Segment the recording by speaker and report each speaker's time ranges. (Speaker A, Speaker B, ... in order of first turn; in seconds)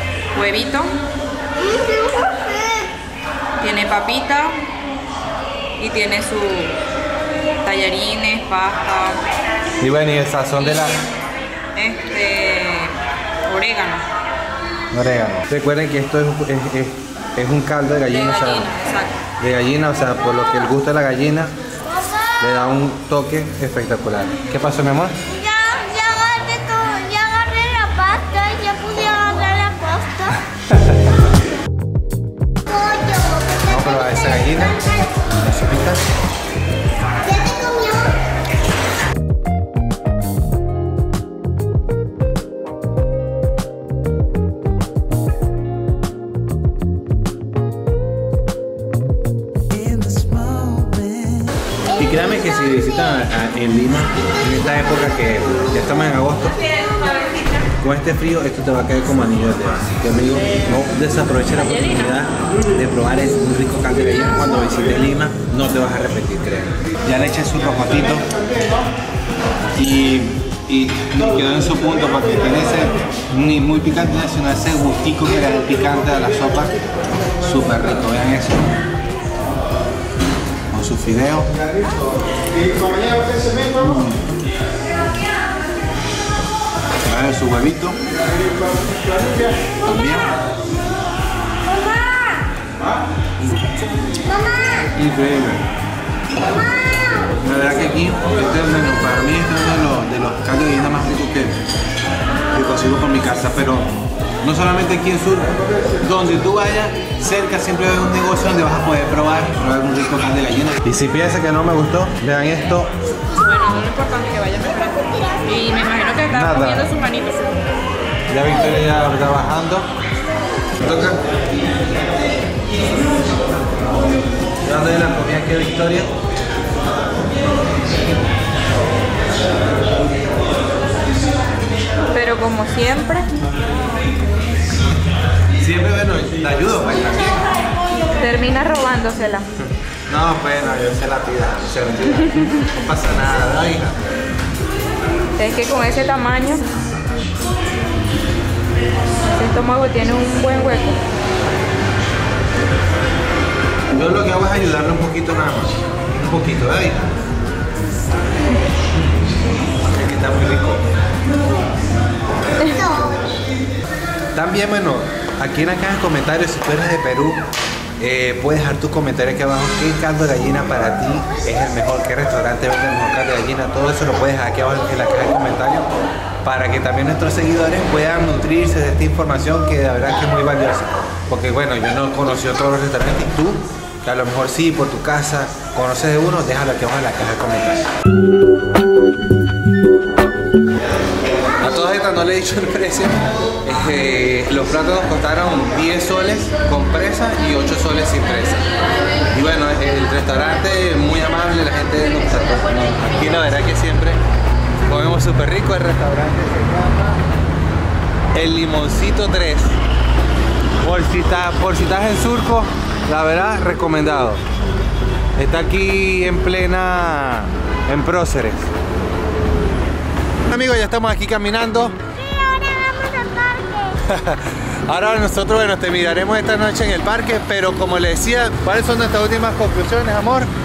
Speaker A: 0.3-1.0, 3.6-4.7, 5.8-6.8, 7.6-9.2, 11.8-14.1, 18.1-19.2, 113.3-117.6, 132.1-133.5, 138.2-139.5, 145.4-146.7, 149.2-151.0
Speaker B: 9.8-11.0, 14.9-18.7, 19.4-21.5, 22.4-25.2, 33.6-36.0, 49.9-51.4, 51.9-56.6, 57.8-68.2, 69.8-76.7, 77.4-78.8, 80.7-81.5, 83.6-84.2, 87.0-88.0, 89.8-90.4, 93.4-93.7, 95.0-95.7, 97.4-101.6, 102.5-103.9, 104.4-112.9, 116.3-116.9, 118.3-119.9, 120.8-121.2, 124.6-126.1, 135.6-137.4, 140.1-144.0, 153.9-157.1, 159.8-160.8, 164.3-167.4, 168.0-175.9, 176.4-187.9, 191.6-198.7, 199.3-204.2, 204.8-207.2, 208.3-209.8, 210.8-214.4, 215.4-218.7, 220.5-222.0, 224.0-230.5
Speaker C: 25.3-30.4, 32.7-33.6, 37.2-38.2, 91.7-92.4, 94.3-94.8, 162.6-163.1, 222.2-224.0